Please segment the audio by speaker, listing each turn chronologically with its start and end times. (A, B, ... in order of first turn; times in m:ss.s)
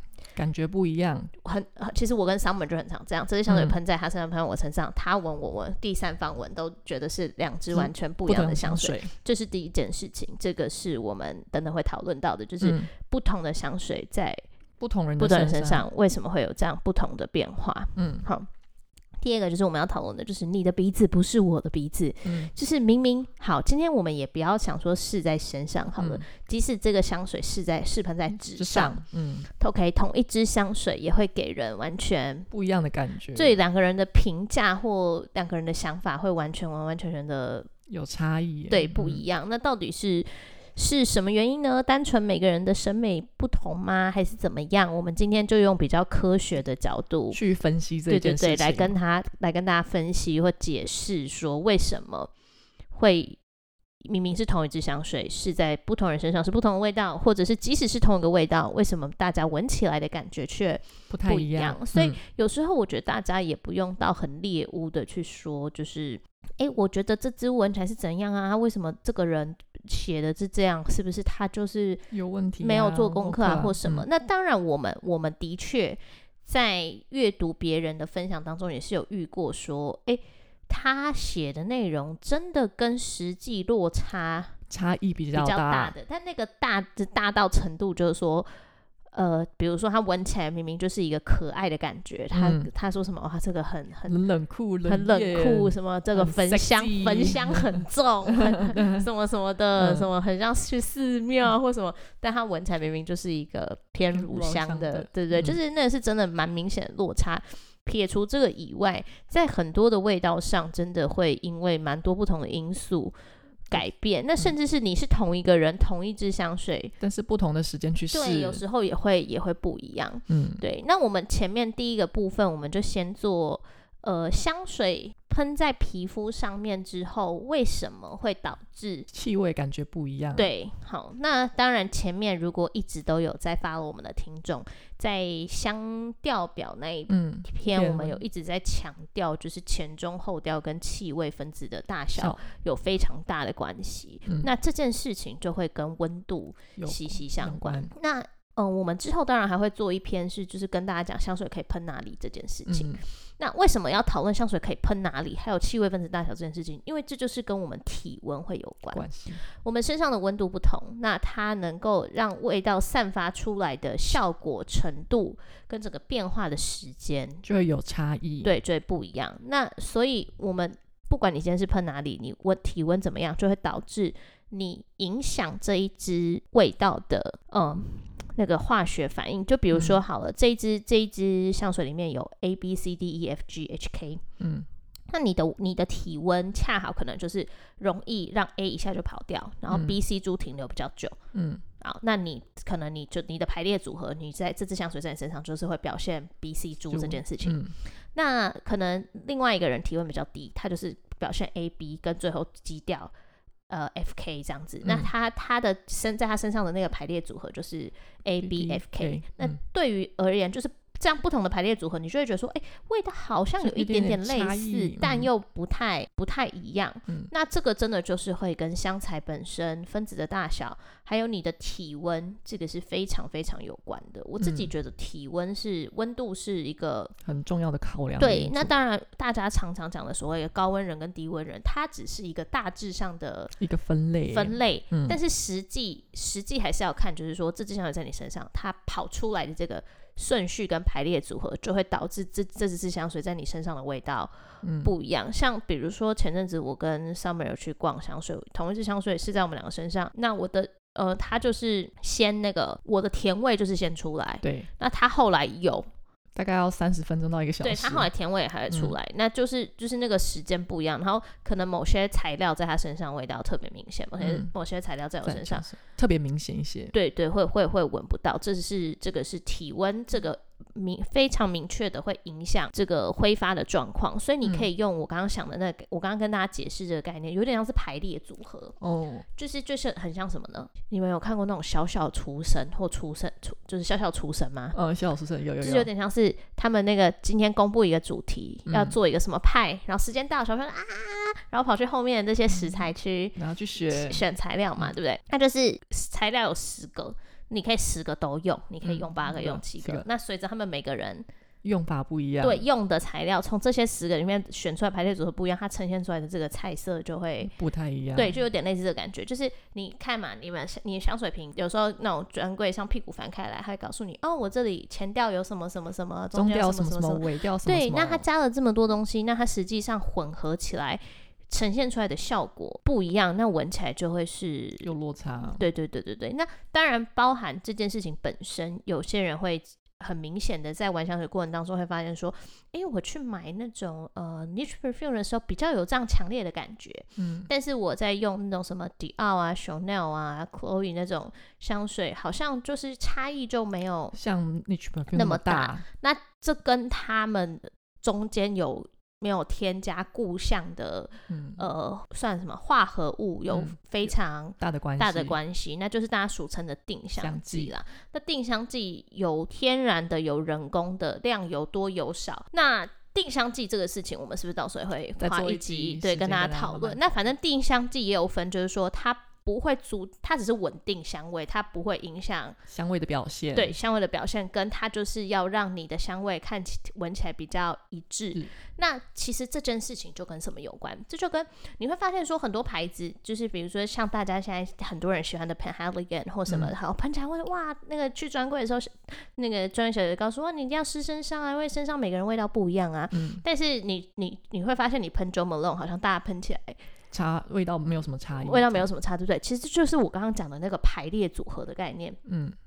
0:00.3-0:01.3 A
0:01.4-0:14.4 B
0:03.5-0:03.8 A
0:07.7-0:09.1 A
0:12.6-0:12.9 A
0:14.8-0:15.8 A
0:15.2-0:18.5 B
0:18.0-0:18.3 A
0:19.2-0:32.5 B
0:22.2-0:22.5 A
0:26.0-0:26.2 A
0:28.6-0:29.5 A
0:32.5-0:33.6 A
0:33.3-0:37.7 B
0:37.9-0:39.2 A
0:38.7-0:47.4 B
0:47.3-0:49.0 A
0:48.1-0:52.3 B
0:52.9-0:53.4 B
0:54.0-1:24.6 B
1:01.1-1:02.2 A
1:12.1-1:14.0 A
1:24.7-1:25.9 A
1:25.3-1:28.5 B
1:29.1-1:34.2 B
1:32.3-1:32.7 A
1:34.0-1:39.1 A
1:34.8-1:53.1 B
1:39.8-1:40.1 A
1:44.1-1:45.6 A
1:53.7-1:56.9 B
1:57.0-1:58.6 A
1:58.1-2:09.1 B
2:00.3-2:00.6 A
2:09.1-2:10.5 A
2:10.3-2:47.4 B
2:17.1-2:18.2 A
2:22.2-2:22.4 A
2:24.2-2:24.5 A
2:26.8-2:27.9 A
2:32.7-2:33.0 A
2:38.9-2:39.4 A
2:47.4-2:48.5 A
2:48.4-3:04.2 B
2:59.7-3:00.0 A
3:04.4-3:04.7 A
3:05.1-3:11.2 B
3:09.7-3:10.0 A
3:11.3-3:11.6 A
3:11.8-3:23.1 B
3:16.9-3:17.8 A
3:23.7-3:47.1 B
3:24.8-3:25.1 A
3:28.4-3:29.6 A
3:33.6-3:35.3 A
3:44.4-3:44.7 A
3:47.2-3:48.7 A
3:48.2-3:53.6 B
3:53.6-3:55.2 A
3:54.3-4:15.8 B
4:04.6-4:04.9 A
4:14.4-4:14.7 A
4:16.4-4:18.1 A
4:17.6-4:25.6 B
4:18.7-4:18.9 A
4:24.2-4:24.5 A
4:25.2-4:26.9 A
4:26.9-4:38.8 B
4:34.4-4:34.7 A
4:38.8-4:39.2 A
4:39.3-4:44.8 B
4:44.7-4:45.9 A
4:45.6-5:01.2 B
4:48.7-4:49.0 A
4:52.5-4:52.8 A
4:53.4-4:54.2 A
4:58.8-5:00.0 A
5:01.6-5:02.6 A
5:02.4-5:07.5 B
5:07.4-5:08.4 A
5:08.1-5:24.9 B
5:16.3-5:18.2 A
5:24.8-5:25.6 A
5:25.5-5:44.1 B
5:37.2-5:37.5 A
5:44.1-5:45.8 A
5:45.1-6:12.6 B
5:51.3-5:51.6 A
5:53.5-5:55.4 A
5:57.2-5:57.7 A
6:05.2-6:07.0 A
6:12.7-6:13.8 A
6:13.5-6:36.8 B
6:33.1-6:33.4 A
6:37.1-6:38.9 A
6:38.3-6:42.2 B
6:42.2-6:42.5 A